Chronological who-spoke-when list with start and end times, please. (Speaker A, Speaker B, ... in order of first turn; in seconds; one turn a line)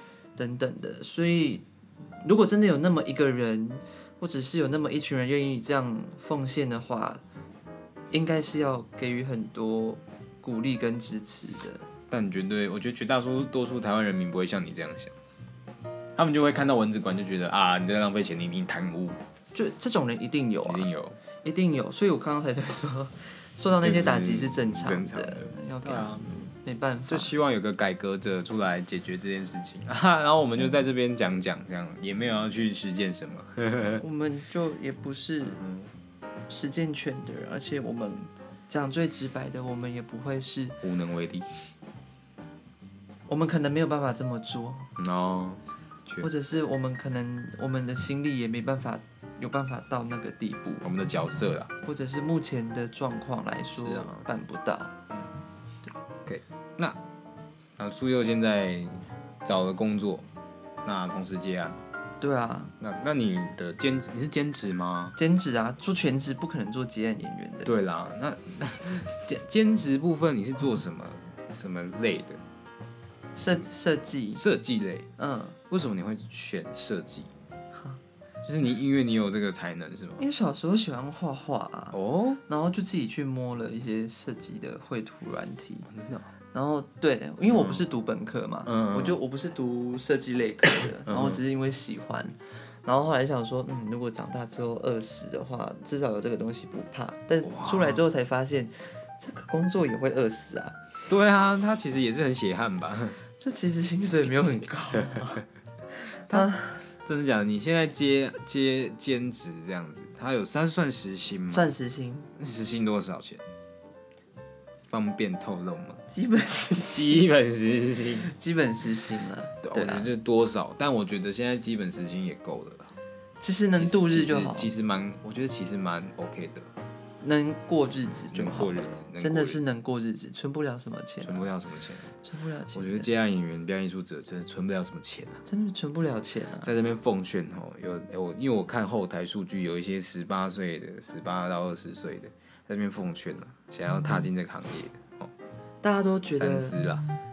Speaker A: 0.4-1.6
Speaker A: 2.2-7.2
Speaker A: 8.1-11.9
Speaker B: 12.1-15.1
Speaker B: 16.2-19.2
Speaker A: 19.5-20.9
Speaker B: 20.6-21.2
Speaker A: 21.4-27.3
Speaker B: 23.8-26.3
Speaker B: 27.1-34.0
Speaker A: 34.0-35.6
Speaker B: 35.5-35.9
Speaker A: 36.5-40.8
Speaker B: 40.8-41.5
Speaker A: 43.3-44.9
Speaker B: 45.0-46.3
Speaker A: 46.2-50.9
Speaker B: 50.8-51.7
Speaker A: 51.8-54.9
Speaker B: 53.7-54.3
Speaker B: 56.3-57.0
Speaker B: 57.8-60.3
Speaker B: 60.8-61.9
Speaker A: 62.2-62.7
Speaker B: 62.8-65.2
Speaker A: 65.2-67.7
Speaker B: 67.6-72.4
Speaker A: 73.3-74.4
Speaker B: 74.3-75.1
Speaker A: 75.2-75.6
Speaker B: 75.7-77.3
Speaker A: 77.7-78.0
Speaker B: 78.5-80.2
Speaker A: 80.2-82.0
Speaker B: 81.9-82.4
Speaker A: 82.5-85.9
Speaker B: 85.9-86.3
Speaker A: 86.5-100.8
Speaker B: 87.5-87.8
Speaker B: 88.7-89.2
Speaker B: 91.0-91.4
Speaker B: 97.4-98.0
Speaker B: 101.1-103.2
Speaker A: 103.4-105.4
Speaker B: 106.3-111.7
Speaker A: 106.3-106.9
Speaker A: 111.5-112.3
Speaker B: 112.4-113.4
Speaker B: 114.9-116.0
Speaker A: 116.1-117.3
Speaker B: 116.9-118.3
Speaker A: 118.2-120.1
Speaker B: 119.6-122.9
Speaker A: 123.4-124.7
Speaker B: 123.8-126.7
Speaker A: 127.2-131.5
Speaker B: 128.3-129.6
Speaker B: 131.2-132.1
Speaker A: 132.2-133.1
Speaker B: 132.7-135.4
Speaker A: 135.5-136.7
Speaker B: 136.6-145.3
Speaker A: 145.8-146.8
Speaker B: 146.4-147.1